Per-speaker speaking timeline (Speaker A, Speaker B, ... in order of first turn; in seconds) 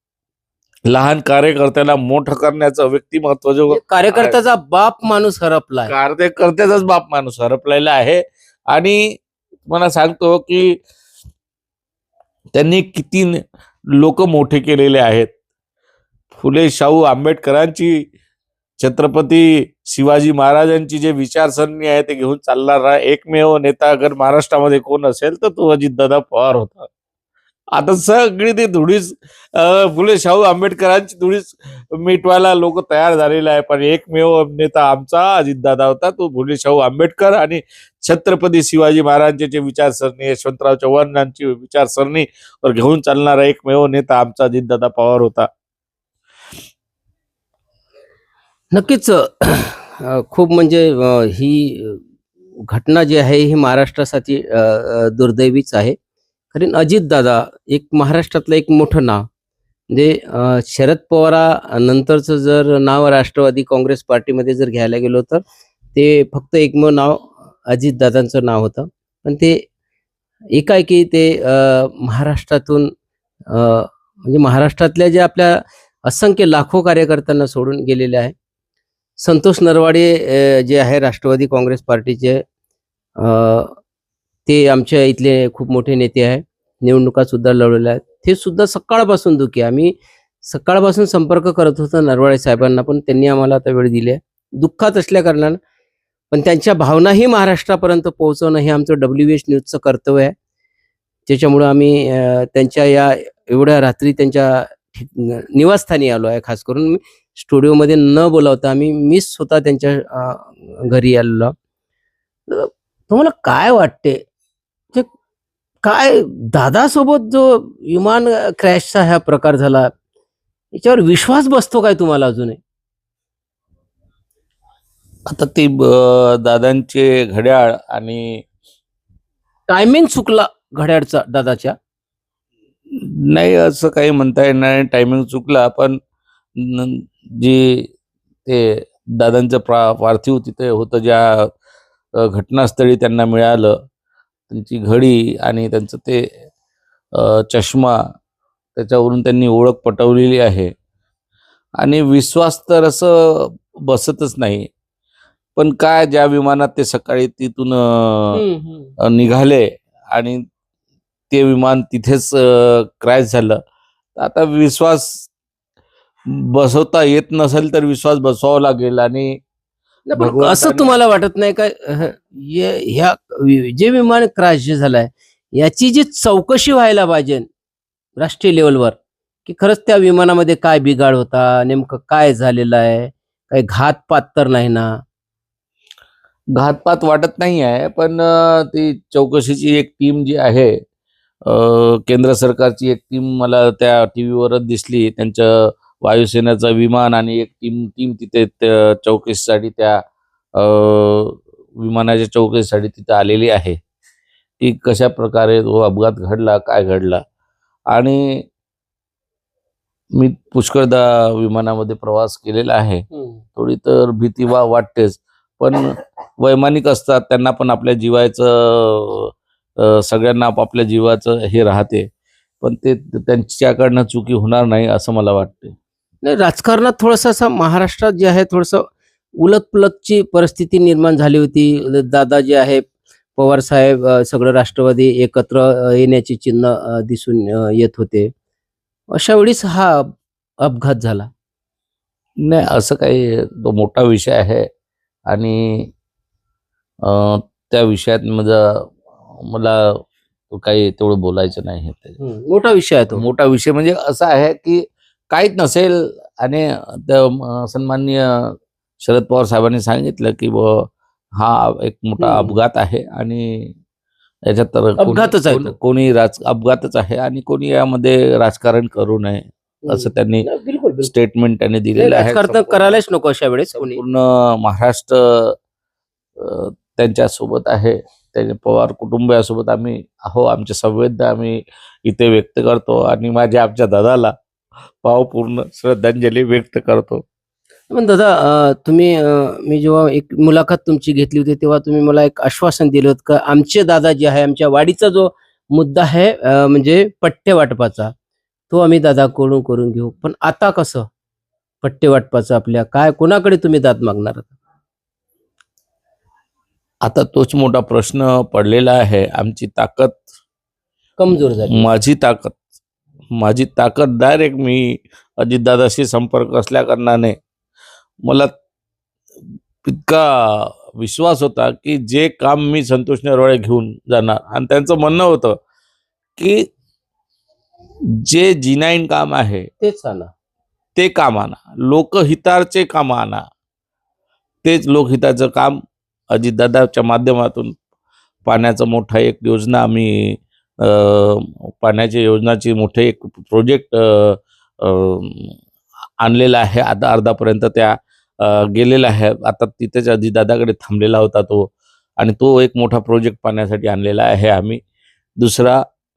Speaker A: 0.9-4.3, 5.9-10.8, 12.5-13.4, 13.9-15.3, 16.3-18.1, 18.8-26.9, 27.7-45.5, 125.3-128.4, 132.9-136.0, 136.6-137.9, 138.4-141.5, 142.2-143.8, 144.5-146.4, 147.1-148.0, 148.8-150.7, 151.8-154.7, 155.6-158.4, 159.0-160.4, 161.3-163.6, 164.2-165.3, 166.3-169.4, 170.2-170.9, 186.5-190.8, 191.4-200.0, 200.5-203.8, 204.6-207.2, 207.9-208.4, 210.1-215.9, 216.4-222.1, 222.6-225.7, 242.4-244.7, 245.3-245.9, 247.0-252.2, 253.1-263.7, 264.5-270.4, 271.0-272.9, 273.7-275.6, 276.4-284.3, 285.0-287.2, 307.0-310.2, 311.7-312.6, 313.3-317.4, 318.2-318.5, 319.8-325.6, 326.4-326.6, 328.2-329.7, 330.9-333.4, 334.6-335.8, 336.3-337.7, 338.4-345.6, 346.2-354.8, 355.4-355.8
Speaker B: 3.7-5.9, 48.7-52.0, 52.7-56.0, 56.5-59.3, 59.9-65.4, 65.9-69.7, 70.5-72.9, 73.5-78.3, 79.2-82.4, 83.2-83.8, 84.5-95.6, 96.3-100.3, 101.3-111.5, 112.5-114.2, 115.8-119.9, 120.7-122.6, 129.7-131.8, 158.3-158.9, 170.1-177.4, 178.2-184.9, 213.1-213.4, 226.2-238.3, 239.1-241.3, 252.2-253.2, 262.2-262.6, 265.0-265.7, 269.8-271.1, 271.9-274.0, 287.9-298.1, 298.7-301.1, 301.8-304.5, 311.2-311.9, 329.8-330.3